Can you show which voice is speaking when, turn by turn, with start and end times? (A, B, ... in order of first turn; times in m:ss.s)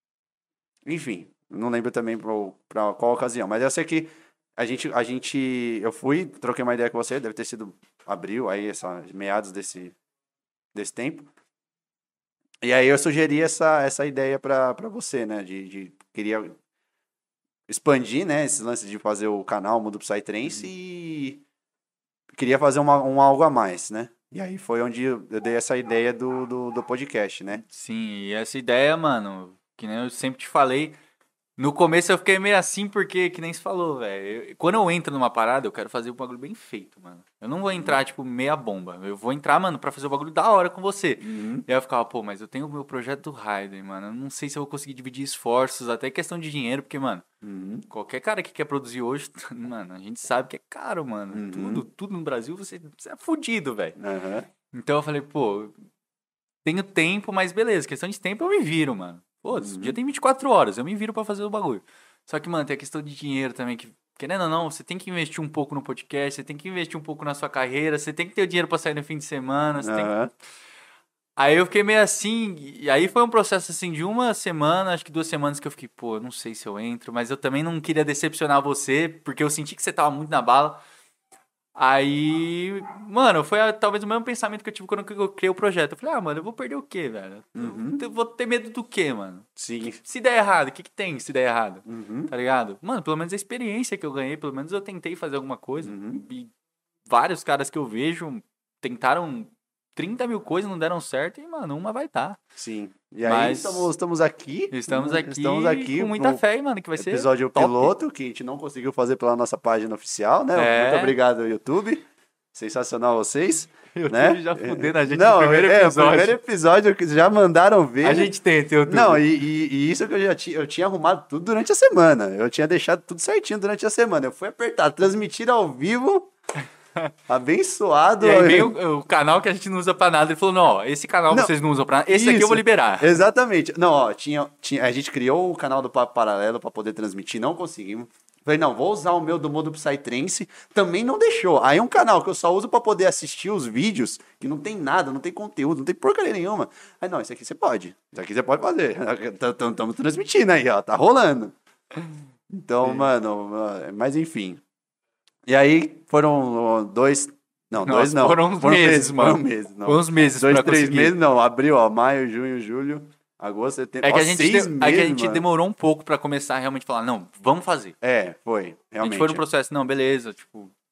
0:00.9-0:09.9 A
0:10.7-0:11.3 A
0:12.6-0:16.6 A
0:17.7-0:21.4 A
0:22.3-0:27.6 A
0:27.6-0:31.0 B
0:31.6-0:47.2 B
0:41.2-0:41.7 A
0:47.4-0:47.9 A
0:47.9-0:54.0 B
0:51.3-0:51.8 A
0:54.0-0:54.5 A
0:54.7-0:55.8 B
0:56.6-1:10.1 B
0:59.5-1:00.0 A
1:09.8-1:10.3 A
1:11.4-1:20.8 B
1:21.8-1:29.5 B
1:27.6-1:28.0 A
1:29.6-1:30.0 A
1:30.0-1:36.5 B
1:31.8-1:32.3 A
1:35.8-1:36.2 A
1:37.1-1:42.4 B
1:42.6-1:46.4 A
1:43.2-1:43.9 B
1:44.7-1:48.0 B
1:47.0-1:58.3 A
1:50.6-1:51.2 B
1:53.9-1:56.4 B
1:58.0-1:59.2 B
1:58.9-2:06.3 A
2:07.3-2:08.8 A
2:08.2-2:13.1 B
2:12.1-2:31.5 A
2:32.5-2:34.6 A
2:32.8-2:33.1 B
2:35.5-2:45.4 A
2:37.8-2:41.2 B
2:44.0-2:48.0 B
2:48.0-2:49.4 A
2:49.0-2:50.7 B